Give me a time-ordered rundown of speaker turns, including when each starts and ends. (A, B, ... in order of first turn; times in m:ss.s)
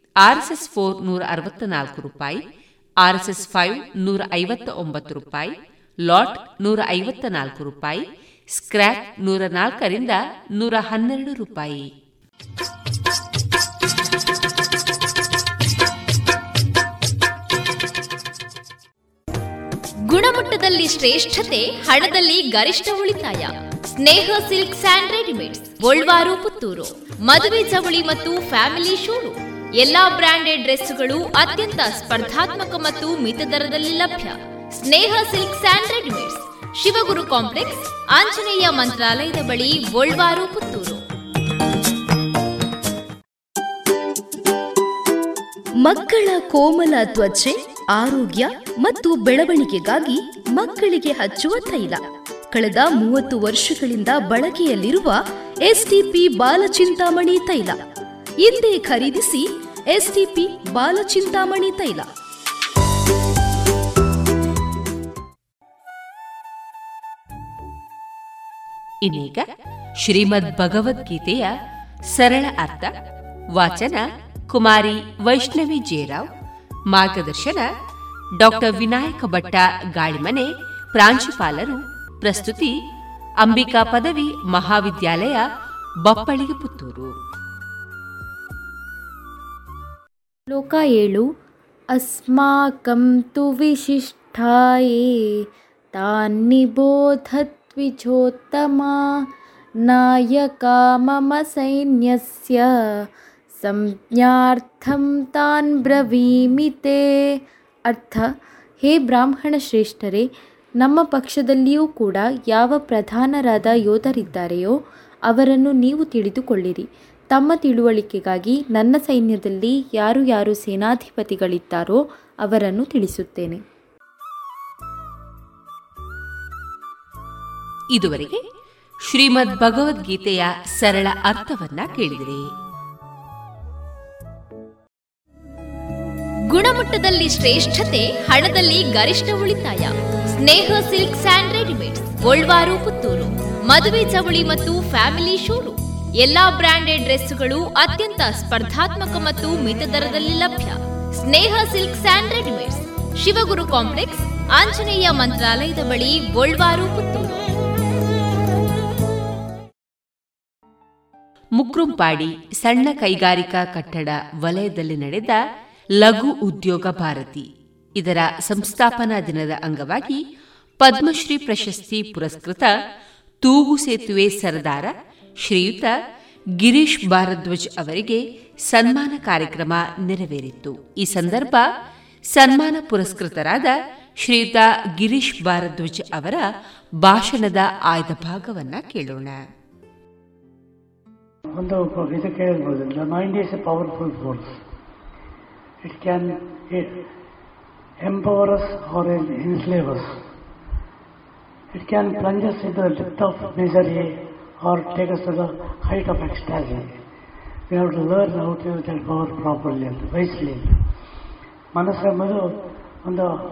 0:00.2-0:02.4 A
0:03.0-0:08.0 A
0:08.6-0:11.9 A
0:20.1-0:41.0 B
0:45.8-0:52.0 C
0:52.5-0:57.8 C
0:58.4-1:02.1 C
1:09.0-1:09.4 A
1:10.0-1:11.5 A
1:12.1-1:12.9 A
1:13.5-1:16.3 A
1:16.9-1:17.7 A
1:18.4-1:22.8 A
1:23.4-1:25.4 A
1:26.0-1:27.1 A
1:30.5-1:31.3 D
1:31.9-1:39.2 D
1:39.8-1:48.3 D
1:48.8-1:50.3 D
1:50.8-2:03.6 D
2:08.0-2:08.4 A
2:09.1-2:12.4 A
2:16.5-2:37.4 B
2:41.6-2:45.4 A
2:46.0-2:50.2 A
2:50.8-2:52.7 A
2:53.4-2:54.9 A
2:55.4-2:55.9 A
2:56.6-3:01.6 A
3:02.3-3:06.4 A
3:07.0-3:09.4 A
3:11.6-3:14.6 E
3:15.8-3:16.9 E
3:18.1-3:20.2 E
3:21.7-3:24.1 E
3:24.6-3:27.0 E
3:27.7-3:30.8 E
3:31.8-3:32.4 E
3:33.1-3:33.3 E